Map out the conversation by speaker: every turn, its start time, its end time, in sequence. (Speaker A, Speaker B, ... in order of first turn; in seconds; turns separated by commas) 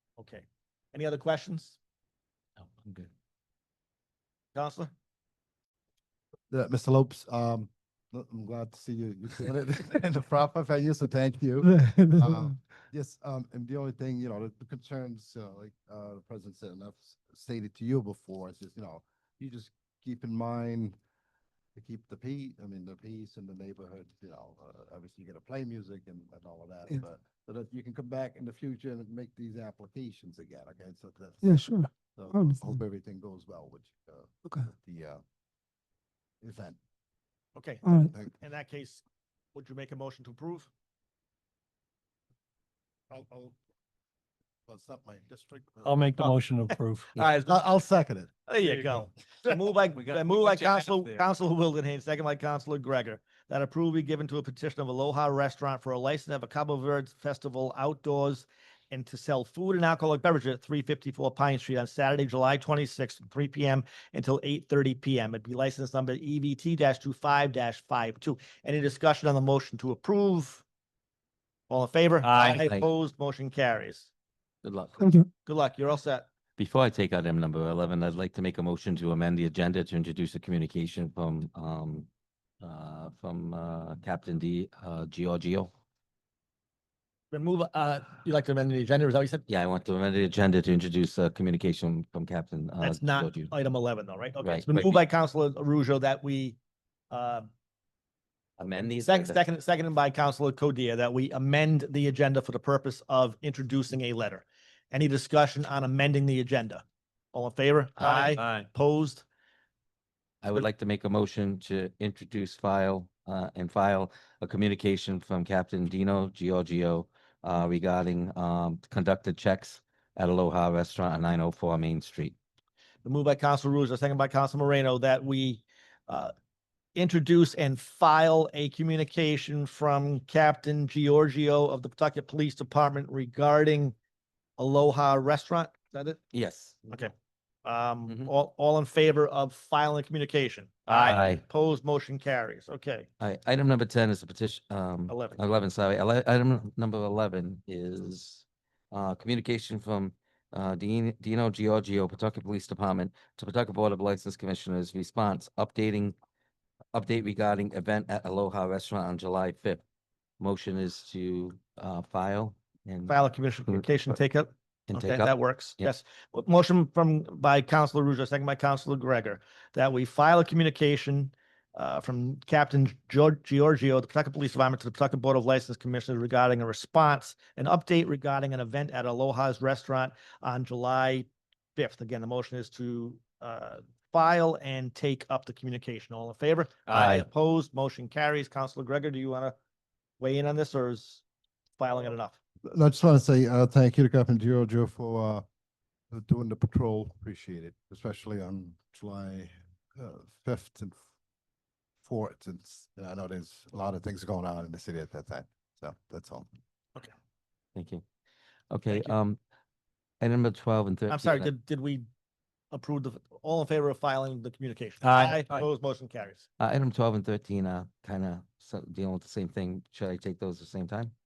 Speaker A: 0.2-1.8, Speaker A: 4.5-4.9, Speaker B: 6.5-20.9, Speaker C: 11.6-12.4, Speaker B: 21.8-35.2, Speaker C: 31.4-32.8, Speaker B: 36.4-36.8, Speaker A: 37.6-40.7, Speaker C: 37.8-38.1, Speaker B: 43.1-43.6, Speaker B: 44.7-46.1, Speaker D: 45.8-47.5, Speaker A: 46.2-46.8, Speaker B: 47.2-48.3, Speaker A: 48.5-70.6, Speaker D: 48.6-49.0, Speaker D: 50.0-51.2, Speaker A: 71.7-74.1, Speaker D: 72.2-72.7, Speaker E: 72.5-72.9, Speaker E: 74.6-75.0, Speaker C: 75.0-75.3, Speaker A: 75.5-76.3, Speaker E: 76.6-82.1, Speaker E: 82.6-85.7, Speaker A: 87.3-89.5, Speaker E: 89.5-93.5, Speaker A: 92.8-96.6, Speaker E: 94.4-95.0, Speaker A: 97.1-97.5, Speaker E: 98.6-99.4, Speaker A: 98.7-109.2, Speaker D: 108.0-108.7, Speaker E: 110.4-122.4, Speaker A: 123.0-126.3, Speaker A: 127.0-134.0, Speaker A: 134.6-136.2, Speaker E: 136.3-136.9, Speaker A: 137.7-143.1, Speaker E: 141.0-141.4, Speaker E: 143.2-156.2, Speaker A: 145.1-145.4, Speaker E: 156.9-159.8, Speaker E: 160.4-163.2, Speaker A: 163.1-189.6, Speaker E: 164.9-165.9, Speaker D: 186.9-187.2, Speaker E: 186.9-187.2, Speaker A: 190.2-191.2, Speaker A: 191.8-192.4, Speaker B: 192.7-195.4, Speaker B: 196.1-201.0, Speaker B: 202.0-206.5, Speaker E: 207.8-208.0, Speaker E: 208.7-209.4, Speaker E: 210.2-211.5, Speaker A: 211.1-212.1, Speaker A: 212.7-216.5, Speaker D: 215.0-215.7, Speaker E: 216.6-221.1